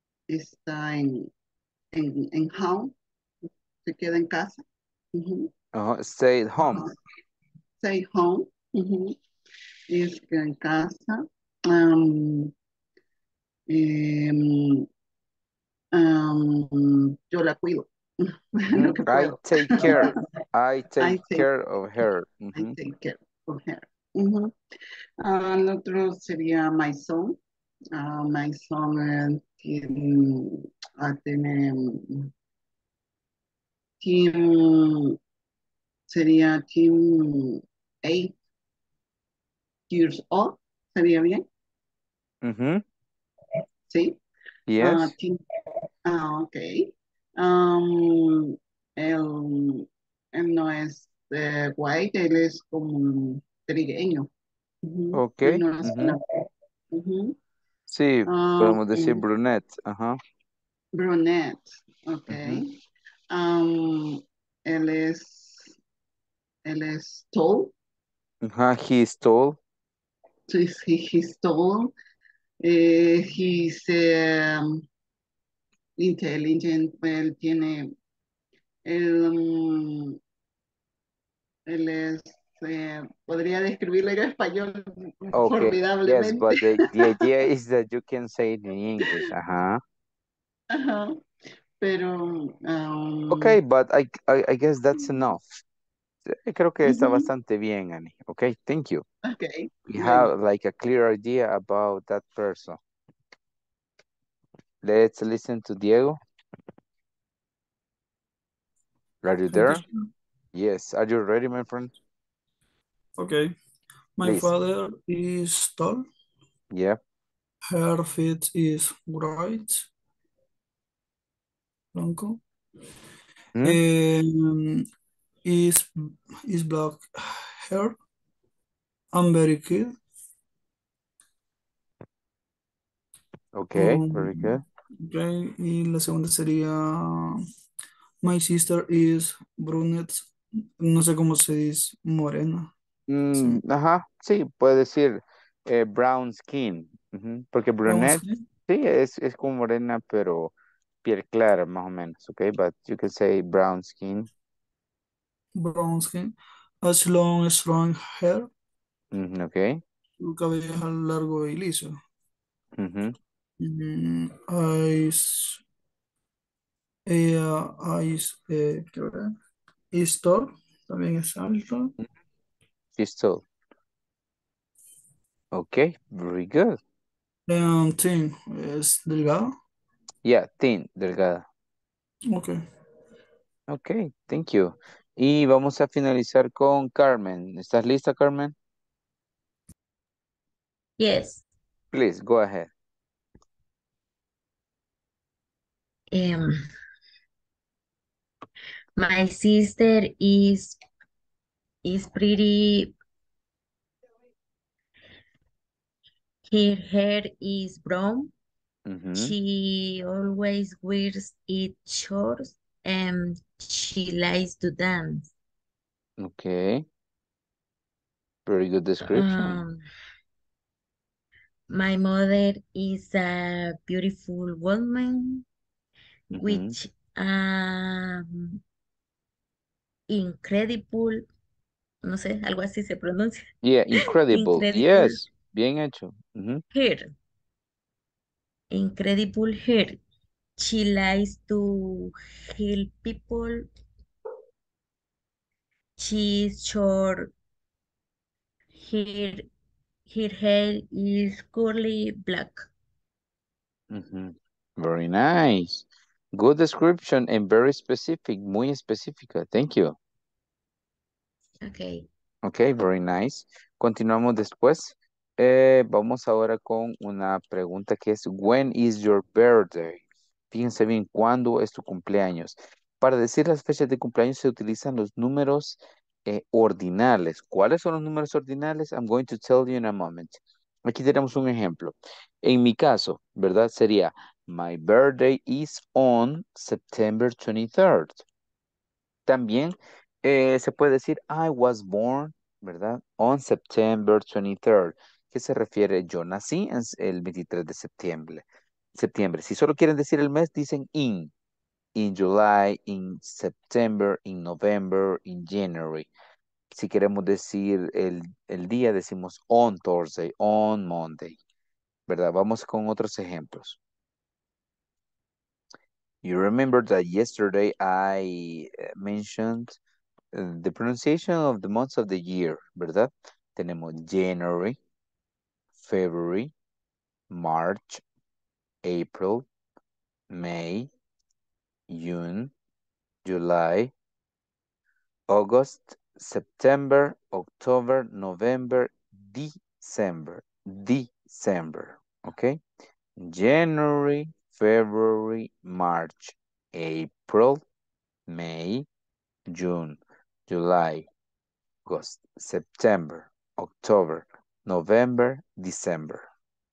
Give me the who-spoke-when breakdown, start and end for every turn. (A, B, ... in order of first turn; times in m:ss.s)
0:00.3-0:01.3 A
0:01.9-0:02.9 A
0:03.9-0:05.5 A
0:05.7-0:06.9 B
0:06.6-0:06.9 A
0:07.8-0:09.2 A
0:09.9-0:12.5 A
0:13.7-0:14.9 A
0:15.9-0:20.2 A
0:18.7-0:22.8 B
0:21.0-0:21.5 A
0:22.6-0:24.5 A
0:25.2-0:27.4 A
0:28.0-0:32.3 A
0:34.0-0:35.2 A
0:36.1-0:38.3 A
0:39.9-0:41.4 A
0:42.4-0:42.8 B
0:43.9-0:44.2 A
0:44.7-0:45.1 B
0:44.8-0:45.4 A
0:46.0-0:54.3 A
0:54.8-0:56.3 A
0:55.1-0:56.2 B
0:56.9-0:57.4 A
0:57.9-1:00.2 B
0:58.3-0:59.2 A
1:01.0-1:02.7 A
1:02.3-1:02.6 B
1:03.3-1:05.7 A
1:06.7-1:07.7 A
1:08.4-1:09.6 B
1:10.5-1:11.9 A
1:12.6-1:14.8 A
1:16.0-1:17.9 A
1:18.9-1:20.2 A
1:21.7-1:27.0 A
1:25.3-1:29.8 B
1:30.7-1:31.2 A
1:31.8-1:33.6 A
1:33.3-1:35.6 B
1:36.3-1:39.0 B
1:36.9-1:37.3 A
1:39.3-1:40.3 A
1:39.9-1:42.8 B
1:44.8-1:46.2 B
1:49.2-1:49.8 B
1:49.5-1:50.1 C
1:50.5-1:51.9 B
1:53.2-1:53.5 C
1:54.2-1:56.0 C
1:54.2-1:54.5 B
1:56.7-1:57.0 B
1:57.7-1:59.9 C
2:02.0-2:02.4 C
2:03.6-2:04.9 C
2:05.5-2:08.0 C
2:09.1-2:10.0 C
2:13.6-2:14.6 B
2:13.7-2:17.4 C
2:18.2-2:22.7 C
2:23.1-2:30.5 B
2:23.4-2:23.6 C
2:27.9-2:28.4 C
2:31.0-2:34.3 B
2:35.6-2:38.5 C
2:39.1-2:39.8 B
2:40.2-2:42.0 C
2:42.8-2:43.2 B
2:43.6-2:45.6 C
2:47.1-2:49.4 C
2:49.9-2:51.9 C
2:53.0-2:53.4 B
2:55.5-2:56.8 B
2:57.5-2:59.5 C
3:00.2-3:01.5 B
3:02.3-3:02.6 C
3:03.7-3:08.5 B
3:11.9-3:12.7 B
3:19.2-3:20.6 D
3:22.0-3:22.8 D
3:26.5-3:28.3 D
3:28.9-3:29.3 B
3:29.2-3:35.2 D
3:36.2-3:36.8 B
3:38.5-3:39.6 B
3:41.7-3:45.3 D
3:46.3-3:46.8 B
3:46.4-3:48.2 D
3:50.1-3:51.2 D
3:52.1-3:53.4 D
3:53.6-3:56.6 B
3:54.3-3:55.2 D
3:56.8-3:57.1 D
3:58.7-4:00.0 D
4:00.6-4:02.1 D
4:02.6-4:03.6 D
4:06.0-4:07.3 D
4:08.9-4:09.4 D
4:10.1-4:12.7 D
4:13.9-4:20.0 B
4:21.7-4:22.0 D
4:22.4-4:48.2 B
4:49.3-4:58.4 B
4:59.0-5:01.3 B
5:02.0-5:06.1 B
5:06.7-5:11.4 B
5:12.1-5:13.8 B
5:16.2-5:19.8 B
5:20.3-5:24.8 B
5:25.8-5:26.5 B
5:27.3-5:28.0 B
5:28.8-5:29.5 B
5:30.3-5:30.9 B
5:31.9-5:32.5 B
5:33.2-5:33.9 B
5:35.3-5:42.6 B
5:43.2-5:47.6 B
5:48.3-5:48.9 B
5:49.5-5:51.1 B
5:51.9-5:56.3 B